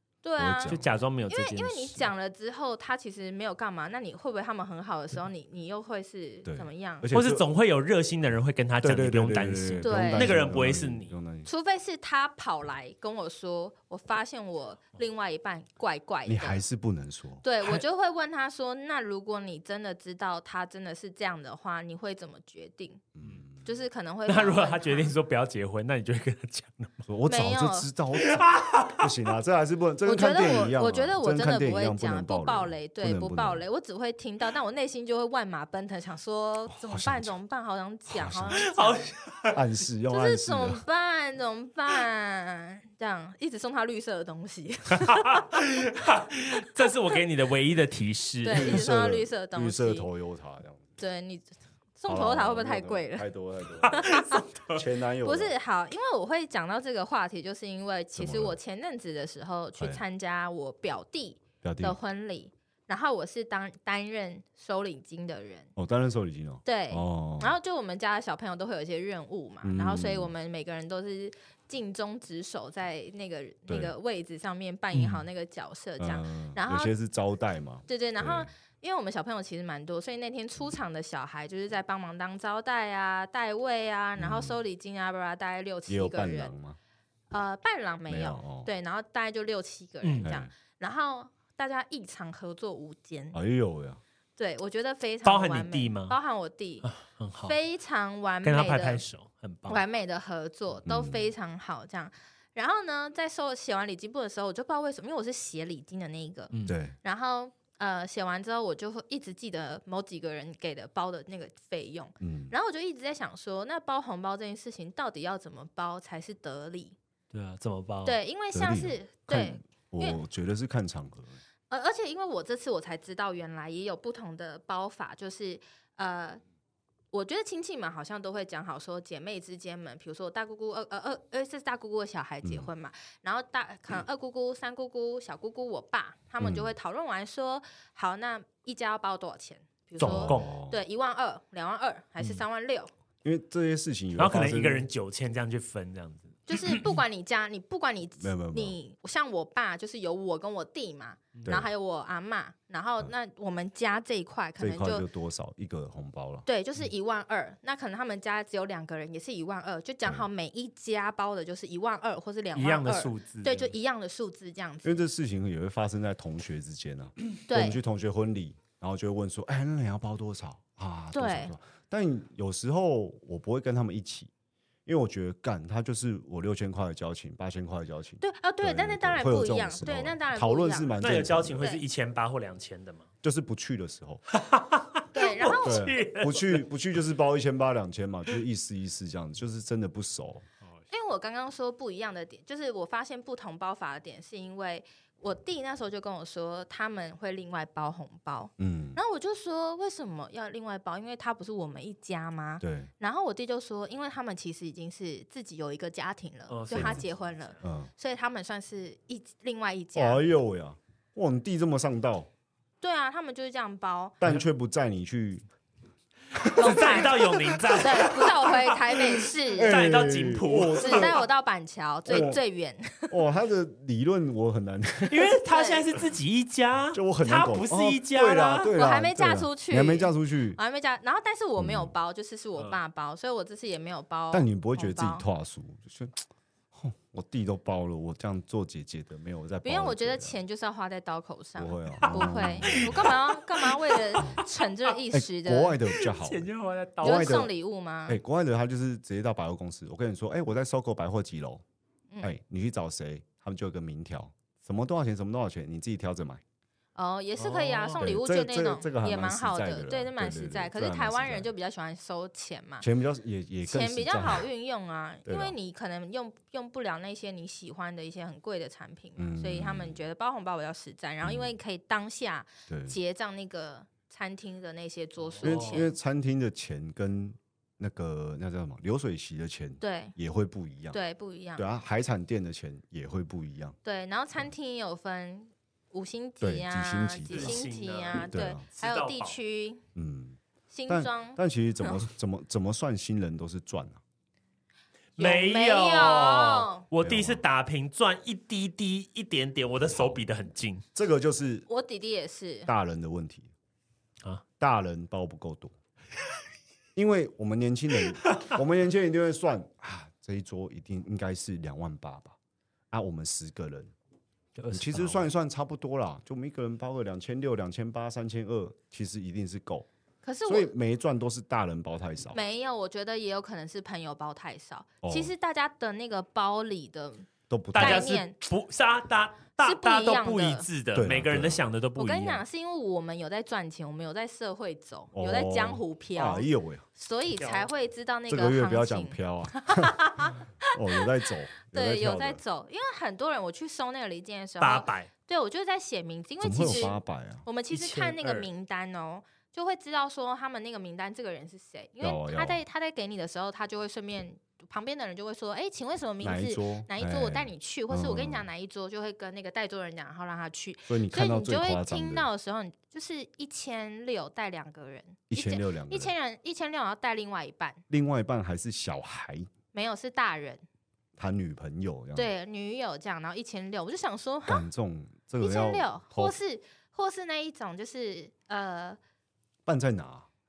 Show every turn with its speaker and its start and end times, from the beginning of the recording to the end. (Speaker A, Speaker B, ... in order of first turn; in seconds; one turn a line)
Speaker A: 0.2-7.1
Speaker B: 0.4-0.9
Speaker C: 0.7-2.1
Speaker B: 6.4-7.4
Speaker C: 7.1-11.1
Speaker B: 8.8-11.5
Speaker A: 9.8-10.3
Speaker A: 11.4-16.6
Speaker B: 16.2-17.4
Speaker A: 17.4-23.0
Speaker B: 23.1-23.6
Speaker A: 23.6-25.1
Speaker C: 24.3-27.0
Speaker B: 27.1-33.6
Speaker A: 27.3-27.9
Speaker C: 28.2-29.1
Speaker A: 30.0-39.1
Speaker B: 36.7-37.3
Speaker B: 38.1-38.6
Speaker C: 38.5-39.6
Speaker B: 39.5-40.8
Speaker A: 40.1-45.5
Speaker C: 45.0-48.8
Speaker A: 48.4-50.1
Speaker B: 48.5-51.0
Speaker A: 51.0-53.2
Speaker B: 52.1-55.5
Speaker C: 53.8-54.8
Speaker A: 54.0-54.4
Speaker A: 55.2-65.7
Speaker B: 58.1-58.6
Speaker B: 61.6-62.0
Speaker B: 65.8-67.6
Speaker A: 66.6-76.9
Speaker B: 69.6-70.3
Speaker B: 73.7-73.9
Speaker C: 74.9-75.2
Speaker B: 76.0-78.5
Speaker A: 77.9-86.5
Speaker B: 84.2-84.6
Speaker B: 85.9-86.8
Speaker A: 87.3-93.4
Speaker B: 88.1-88.7
Speaker C: 90.0-90.3
Speaker B: 90.2-90.5
Speaker B: 93.3-94.0
Speaker A: 94.4-96.9
Speaker C: 95.2-96.2
Speaker C: 96.8-97.6
Speaker A: 97.4-99.0
Speaker C: 98.4-99.8
Speaker A: 99.7-117.0
Speaker B: 100.8-101.2
Speaker C: 106.5-106.8
Speaker B: 106.6-107.0
Speaker B: 112.2-112.5
Speaker C: 117.3-118.2
Speaker A: 118.0-120.2
Speaker B: 118.5-121.4
Speaker A: 121.7-126.4
Speaker A: 127.1-142.9
Speaker B: 132.4-132.7
Speaker B: 136.4-136.7
Speaker C: 140.0-140.5
Speaker B: 140.0-140.8
Speaker B: 143.2-144.9
Speaker C: 144.2-147.0
Speaker A: 146.5-155.0
Speaker B: 148.2-148.8
Speaker B: 154.6-156.4
Speaker A: 156.4-165.0
Speaker C: 162.5-163.7
Speaker B: 164.8-174.3
Speaker A: 167.5-167.8
Speaker A: 171.1-171.5
Speaker B: 174.8-181.6
Speaker A: 178.2-180.9
Speaker C: 181.0-183.1
Speaker A: 181.6-181.8
Speaker B: 183.2-184.2
Speaker C: 184.3-186.6
Speaker A: 185.1-185.9
Speaker B: 185.6-190.4
Speaker A: 190.9-210.2
Speaker B: 198.6-199.0
Speaker B: 202.6-202.9
Speaker C: 206.5-207.6
Speaker B: 206.7-207.0
Speaker B: 207.6-207.9
Speaker B: 209.9-212.3
Speaker A: 212.8-214.2
Speaker B: 214.2-215.4
Speaker B: 216.3-217.6
Speaker C: 216.4-221.1
Speaker A: 216.5-219.8
Speaker B: 219.6-221.2
Speaker A: 220.7-223.1
Speaker B: 222.1-222.4
Speaker B: 223.1-225.4
Speaker C: 225.1-228.7
Speaker A: 225.5-225.8
Speaker B: 226.9-230.6
Speaker A: 228.7-235.2
Speaker B: 231.6-231.9
Speaker B: 234.3-240.4
Speaker A: 239.6-245.8
Speaker B: 241.6-243.2
Speaker C: 242.0-244.4
Speaker B: 244.2-244.4
Speaker B: 245.1-246.5
Speaker C: 245.9-247.4
Speaker B: 247.0-247.5
Speaker A: 247.0-248.2
Speaker B: 248.1-251.6
Speaker B: 252.2-256.4
Speaker A: 256.9-262.9
Speaker C: 257.4-258.1
Speaker B: 258.0-261.5
Speaker B: 262.8-264.5
Speaker A: 263.6-275.9
Speaker B: 265.2-265.6
Speaker B: 269.2-270.0
Speaker B: 271.2-271.5
Speaker B: 272.7-273.0
Speaker C: 275.4-275.8
Speaker B: 275.4-281.0
Speaker A: 279.8-280.1
Speaker A: 280.9-281.6
Speaker B: 281.6-283.8
Speaker A: 283.8-289.8
Speaker B: 286.4-287.6
Speaker C: 287.3-289.4
Speaker B: 288.3-288.6
Speaker B: 289.9-294.0
Speaker A: 290.7-292.0
Speaker C: 295.1-300.8
Speaker A: 295.2-296.8
Speaker B: 297.0-297.4
Speaker B: 299.9-300.2
Speaker B: 300.9-301.7
Speaker A: 301.7-302.7
Speaker B: 302.6-303.5
Speaker B: 304.6-305.7
Speaker B: 306.9-312.4
Speaker C: 308.2-308.5
Speaker B: 312.9-313.9
Speaker C: 314.6-315.3
Speaker B: 314.7-319.9
Speaker A: 320.2-320.7
Speaker B: 320.4-322.4
Speaker A: 322.3-328.4
Speaker B: 325.0-325.3
Speaker B: 327.5-328.1
Speaker C: 327.7-332.4
Speaker A: 329.6-330.7
Speaker B: 330.9-331.6
Speaker A: 332.0-341.1
Speaker B: 335.1-336.9
Speaker C: 337.4-337.7
Speaker B: 338.3-342.4
Speaker A: 341.7-367.8
Speaker C: 344.6-345.1
Speaker B: 346.4-347.4
Speaker C: 347.7-348.5
Speaker B: 352.0-352.6
Speaker B: 356.2-358.4
Speaker B: 360.9-362.3
Speaker B: 365.3-366.1
Speaker B: 367.9-369.5
Speaker A: 369.7-370.6
Speaker B: 371.2-372.3
Speaker A: 372.1-374.6
Speaker B: 374.5-376.3
Speaker A: 375.4-379.0
Speaker B: 379.6-380.3